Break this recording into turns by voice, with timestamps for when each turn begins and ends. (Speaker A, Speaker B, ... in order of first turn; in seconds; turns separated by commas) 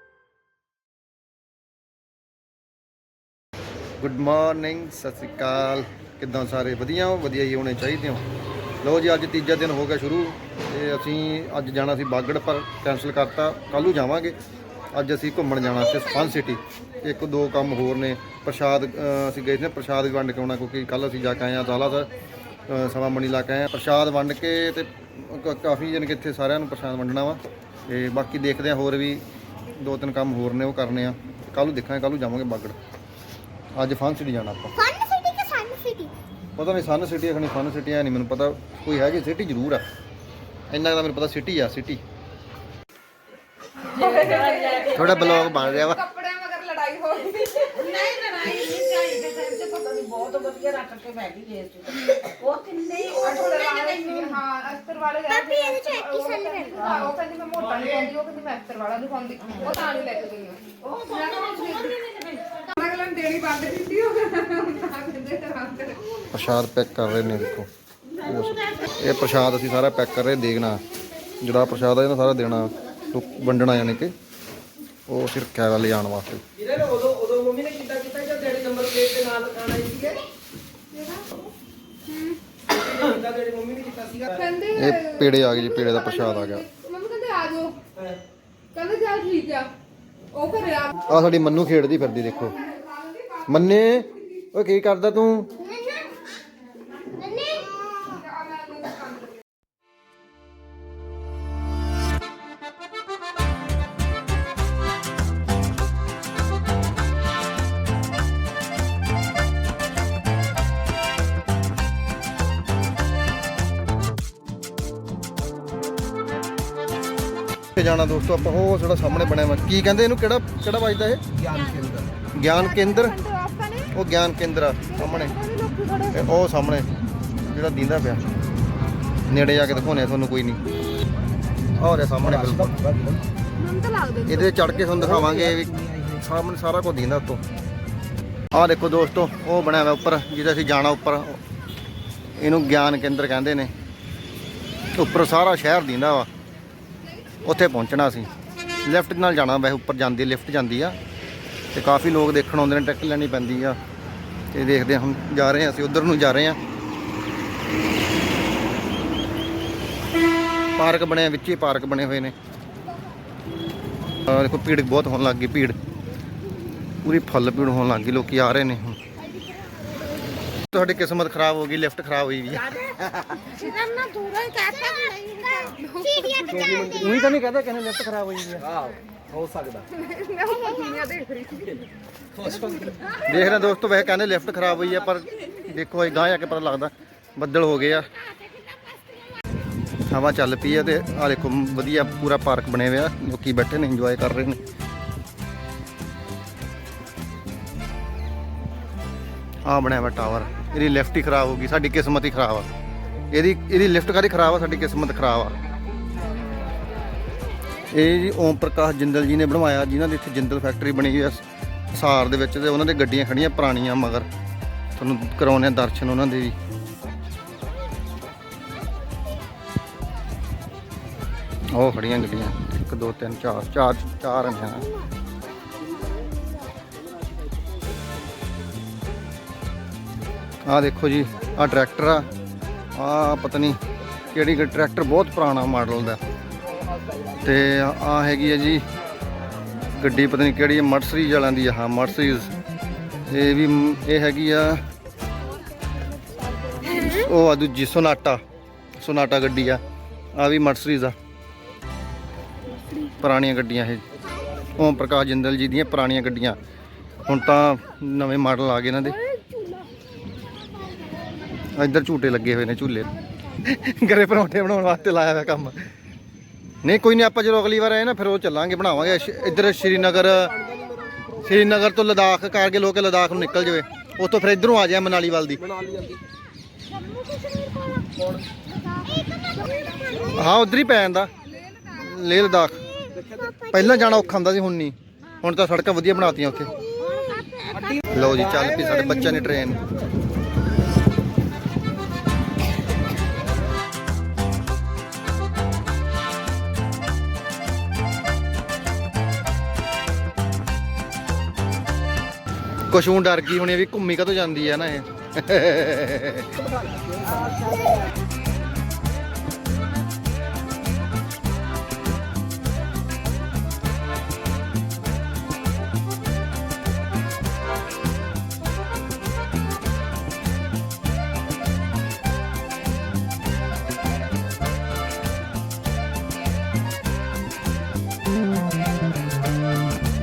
Speaker A: 4.0-8.2, Speaker A: 8.8-14.4, Speaker A: 14.9-22.1, Speaker A: 22.7-32.8, Speaker A: 33.7-34.7, Speaker B: 34.7-36.1, Speaker A: 36.5-39.8, Speaker A: 40.7-42.0, Speaker C: 43.8-45.4, Speaker D: 43.9-47.8, Speaker A: 44.9-46.0, Speaker C: 47.6-54.4, Speaker D: 53.2-61.9, Speaker B: 55.3-56.9, Speaker C: 56.8-57.1, Speaker C: 57.6-58.1, Speaker C: 59.4-59.8, Speaker C: 60.8-62.6, Speaker D: 62.7-66.0, Speaker A: 66.3-67.7, Speaker A: 68.2-70.8, Speaker A: 71.4-74.1, Speaker A: 75.1-76.4, Speaker E: 76.5-80.2, Speaker D: 80.9-81.3, Speaker D: 82.1-82.4, Speaker E: 82.7-84.5, Speaker D: 84.3-87.8, Speaker A: 84.7-86.6, Speaker D: 88.7-89.7, Speaker D: 90.3-91.3, Speaker A: 91.1-92.5, Speaker D: 92.3-94.2, Speaker A: 93.5-95.5, Speaker B: 95.5-96.1, Speaker B: 97.0-98.0, Speaker D: 98.1-99.4, Speaker A: 117.7-121.2, Speaker E: 121.3-122.1, Speaker A: 122.3-123.2, Speaker D: 122.5-123.9, Speaker A: 123.9-125.3, Speaker D: 124.8-126.2, Speaker A: 126.1-128.2, Speaker A: 129.2-130.6, Speaker A: 131.7-132.8, Speaker E: 132.2-133.2, Speaker D: 133.6-135.1, Speaker A: 134.3-137.4, Speaker E: 135.2-136.1, Speaker A: 138.5-141.4, Speaker A: 142.4-143.7, Speaker A: 144.9-146.3, Speaker A: 147.4-148.3, Speaker A: 148.8-151.0, Speaker A: 151.7-153.8, Speaker A: 154.5-156.6, Speaker A: 160.8-162.3, Speaker A: 164.2-165.8, Speaker A: 167.0-169.0, Speaker A: 170.7-172.7, Speaker D: 172.6-177.0, Speaker E: 176.4-177.2, Speaker B: 176.5-176.9, Speaker A: 177.0-178.6, Speaker E: 178.6-179.9, Speaker D: 179.9-181.9, Speaker E: 182.3-183.1, Speaker A: 183.3-188.1, Speaker A: 190.1-194.6, Speaker A: 199.6-202.7, Speaker A: 203.3-205.5, Speaker A: 207.9-214.3, Speaker A: 214.9-216.6, Speaker A: 221.7-224.8, Speaker E: 227.0-227.7, Speaker A: 230.6-232.3, Speaker A: 232.9-233.8, Speaker A: 234.3-236.2, Speaker E: 236.7-237.6, Speaker A: 237.4-238.8, Speaker A: 240.0-242.5, Speaker A: 243.3-244.8, Speaker A: 247.0-248.4, Speaker A: 249.0-249.8, Speaker A: 250.3-251.2, Speaker A: 253.2-254.0, Speaker A: 254.8-256.6, Speaker A: 257.2-259.2, Speaker A: 261.7-263.1, Speaker A: 263.6-265.9, Speaker A: 266.8-270.5, Speaker E: 268.9-271.6, Speaker A: 271.4-275.6, Speaker E: 275.6-276.2, Speaker B: 277.0-278.1, Speaker E: 278.2-278.4, Speaker B: 278.7-279.8, Speaker A: 280.3-281.3, Speaker A: 281.9-282.8, Speaker E: 283.1-283.6, Speaker A: 283.7-286.7, Speaker B: 287.1-287.5, Speaker E: 287.7-290.0, Speaker A: 288.1-289.8, Speaker A: 302.9-306.5, Speaker E: 306.6-308.0